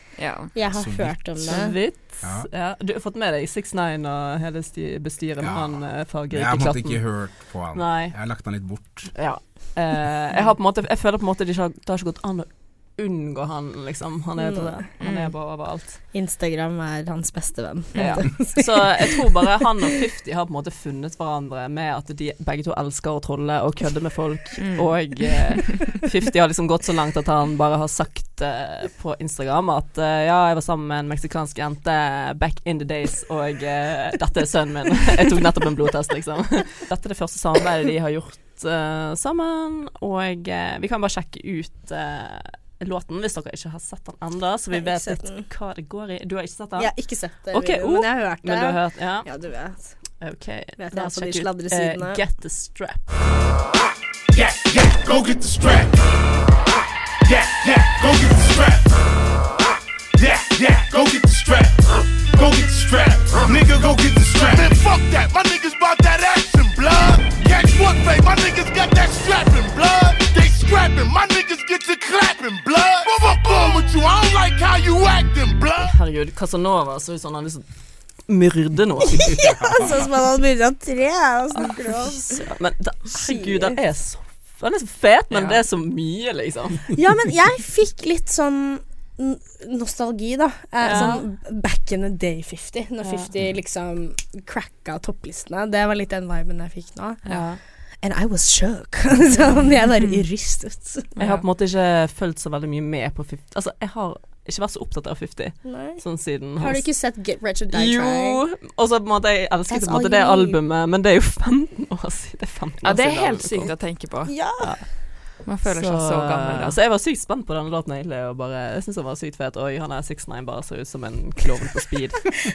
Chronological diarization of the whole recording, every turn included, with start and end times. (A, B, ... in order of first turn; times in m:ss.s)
0:00.2-0:00.5 A
0:00.5-0:01.8 B
0:00.7-0:01.3 C
0:01.4-0:08.2 D
0:02.2-0:02.5 C
0:05.4-0:09.2 C
0:09.1-0:16.0 D
0:14.4-0:14.8 B
0:15.0-0:15.3 A
0:16.1-0:19.1 B
0:17.9-0:18.5 A
0:17.9-0:49.4 D
0:24.6-0:25.1 A
0:44.7-0:45.4 B
0:46.8-0:50.1 B
0:50.2-0:53.1 D
0:50.8-0:52.2 B
0:54.3-0:56.0 E
0:57.2-0:58.9 E
1:00.2-1:16.0 E
1:15.8-1:19.3 D
1:19.1-1:22.3 B
1:21.5-1:26.8 D
1:23.1-1:23.8 B
1:25.3-1:25.6 A
1:26.9-1:41.1 B
1:30.8-1:31.2 D
1:30.8-1:31.2 A
1:33.0-1:33.3 D
1:37.2-1:37.6 D
1:41.1-1:41.4 A
1:41.2-1:46.9 D
1:45.6-1:48.4 B
1:47.7-1:53.7 D
1:49.7-1:50.6 B
1:52.8-1:54.3 A
1:54.3-1:54.8 B
1:54.6-1:54.9 D
1:55.4-2:02.4 D
1:55.4-1:56.8 A